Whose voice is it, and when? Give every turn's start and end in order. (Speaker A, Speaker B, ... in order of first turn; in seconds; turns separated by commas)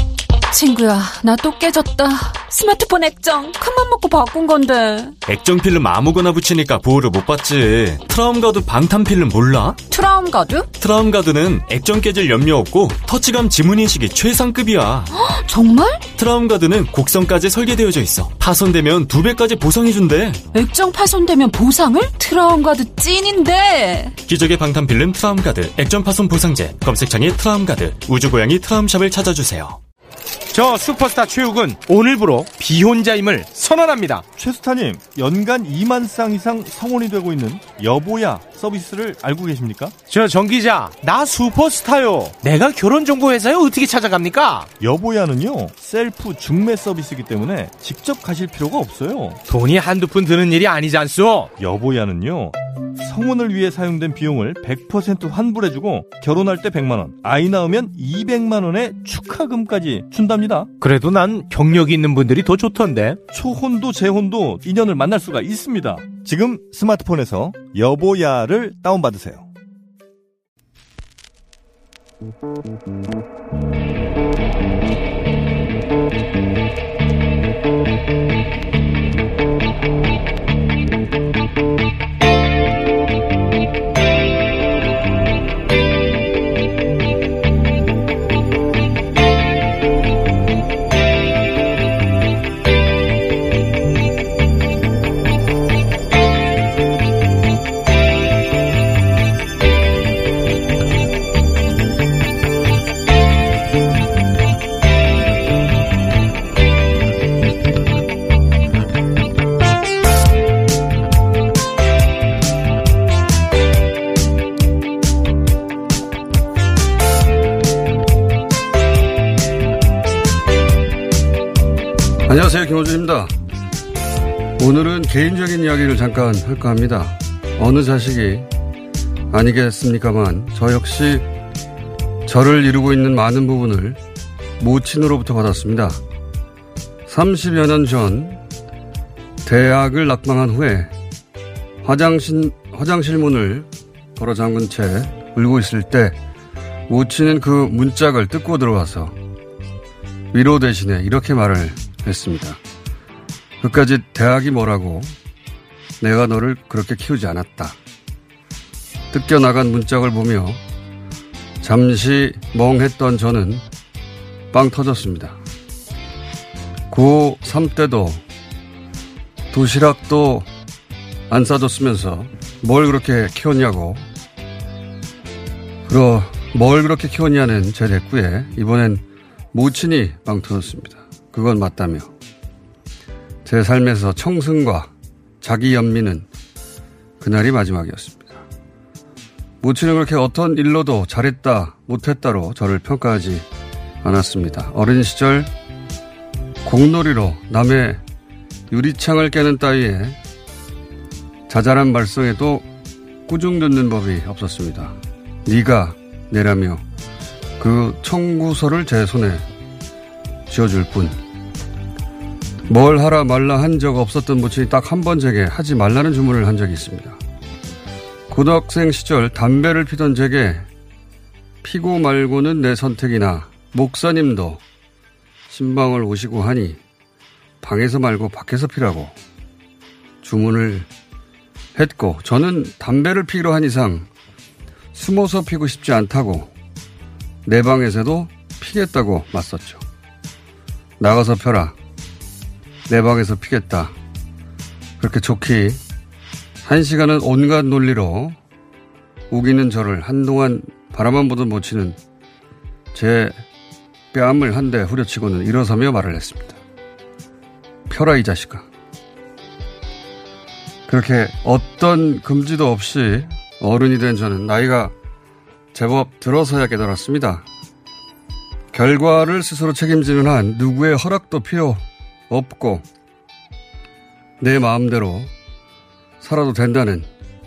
Speaker A: 0.5-5.2, Speaker B: 5.2-9.8, Speaker A: 9.9-10.7, Speaker B: 10.8-15.1, Speaker A: 15.1-16.1, Speaker B: 16.2-20.4, Speaker A: 20.5-24.1, Speaker B: 24.2-29.8, Speaker C: 30.5-34.2, Speaker D: 34.4-40.0, Speaker C: 40.1-44.7, Speaker D: 44.8-49.4, Speaker C: 49.5-51.5, Speaker D: 51.5-60.7, Speaker C: 60.8-63.2, Speaker D: 63.3-69.5, Speaker E: 122.3-123.3, Speaker E: 124.6-128.5, Speaker E: 129.3-131.3, Speaker E: 132.3-134.0, Speaker E: 134.6-136.0, Speaker E: 137.1-138.4, Speaker E: 139.4-140.9, Speaker E: 141.8-146.2, Speaker E: 146.9-149.2, Speaker E: 150.3-152.6, Speaker E: 153.6-155.1, Speaker E: 156.0-157.8, Speaker E: 159.1-160.6, Speaker E: 161.6-163.6, Speaker E: 164.5-165.4, Speaker E: 166.9-168.2, Speaker E: 169.5-170.5, Speaker E: 171.3-174.1, Speaker E: 175.9-182.1, Speaker E: 183.4-184.9, Speaker E: 185.4-186.3, Speaker E: 187.2-188.4, Speaker E: 189.6-193.5, Speaker E: 194.0-195.5, Speaker E: 196.6-198.0, Speaker E: 198.7-200.2, Speaker E: 201.5-202.7, Speaker E: 203.3-206.8, Speaker E: 207.6-209.4, Speaker E: 210.5-211.2, Speaker E: 212.7-217.2, Speaker E: 218.3-220.7, Speaker E: 221.6-224.6, Speaker E: 225.5-226.8, Speaker E: 227.6-229.2, Speaker E: 230.2-230.9, Speaker E: 231.8-234.1, Speaker E: 234.9-236.5, Speaker E: 237.5-239.8, Speaker E: 241.0-241.8, Speaker E: 242.9-243.9, Speaker E: 245.0-245.8, Speaker E: 246.6-248.4, Speaker E: 249.3-252.0, Speaker E: 252.9-253.4, Speaker E: 254.1-256.6, Speaker E: 257.9-258.7, Speaker E: 260.9-264.9, Speaker E: 265.7-267.4, Speaker E: 268.7-272.9, Speaker E: 274.4-275.3, Speaker E: 276.2-277.1